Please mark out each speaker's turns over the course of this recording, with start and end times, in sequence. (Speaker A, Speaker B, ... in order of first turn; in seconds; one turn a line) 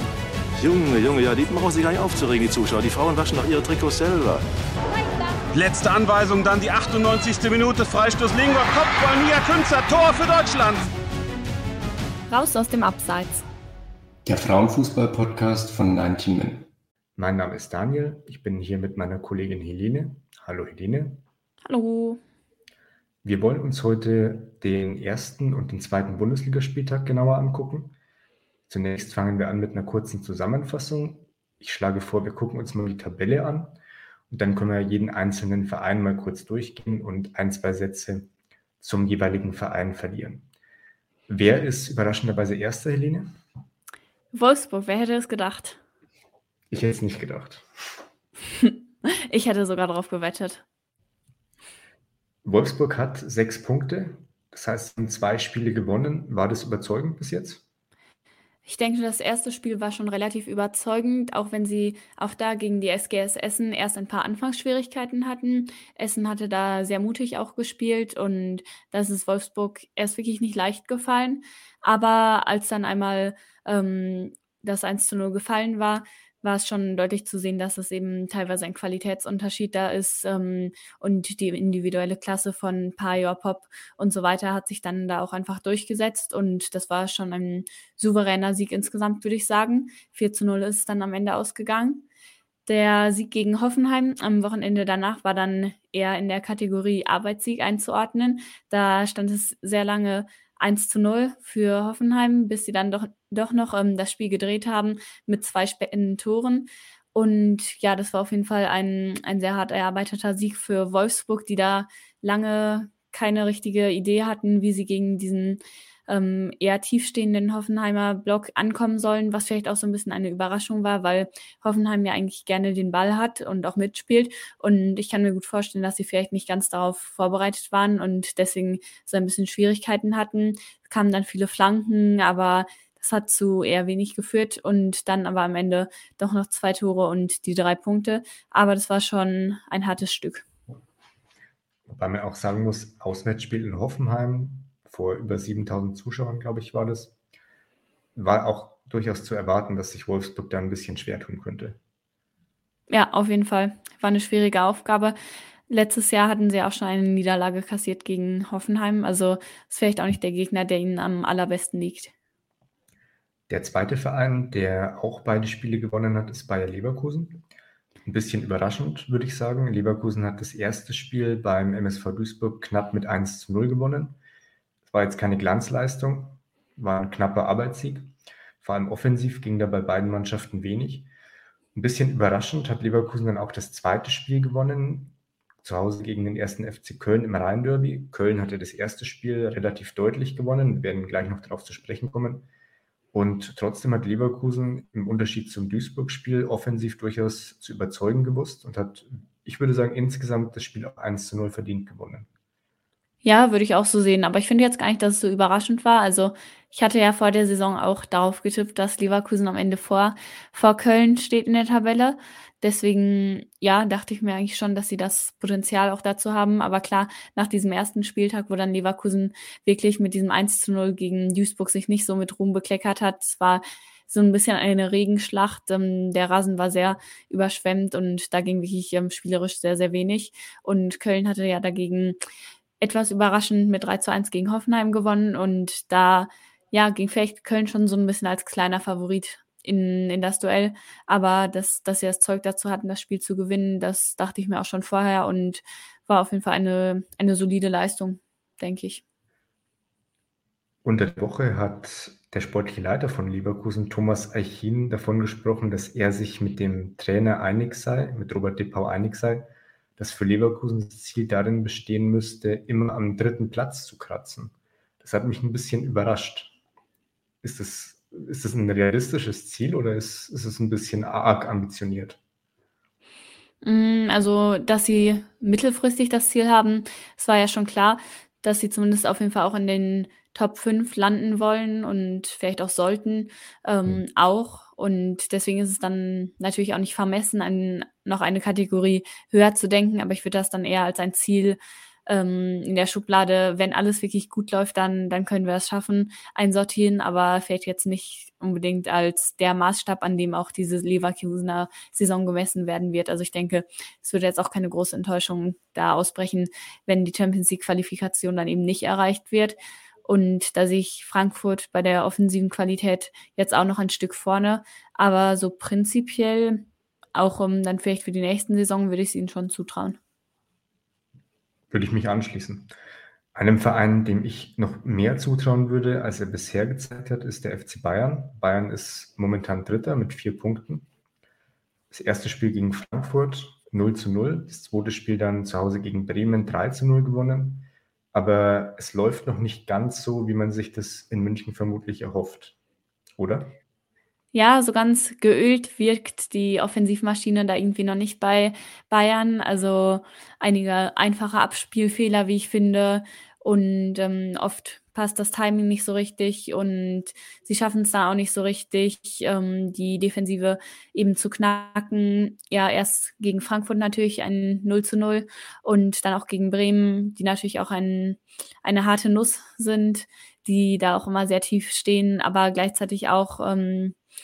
Speaker A: 0.5-4.4
Speaker B: 5.5-10.9
Speaker C: 12.3-13.4
Speaker D: 14.2-16.7
Speaker E: 17.1-21.2
Speaker C: 21.6-22.2
Speaker E: 23.2-27.9
Speaker E: 28.7-33.8
Speaker E: 34.3-38.3
Speaker E: 38.8-40.5
Speaker E: 41.3-43.3
Speaker C: 44.3-45.8
Speaker E: 46.7-47.6
Speaker C: 48.6-50.6
Speaker E: 52.4-57.6
Speaker C: 58.6-92.0
Speaker C: 92.7-140.4
Speaker E: 141.9-147.1
Speaker E: 148.1-151.8
Speaker C: 152.9-155.2
Speaker C: 155.7-162.1
Speaker E: 163.5-167.4
Speaker E: 168.0-174.2
Speaker E: 174.9-181.1
Speaker E: 181.7-192.5
Speaker E: 193.1-202.3
Speaker C: 203.2-232.2
Speaker C: 232.8-249.0
Speaker E: 250.8-266.5
Speaker E: 267.4-272.2
Speaker C: 273.6-316.6
Speaker C: 317.1-320.0
Speaker E: 321.7-322.7
Speaker E: 323.3-330.9
Speaker E: 331.9-342.6
Speaker E: 343.2-343.6
Speaker C: 344.3-373.9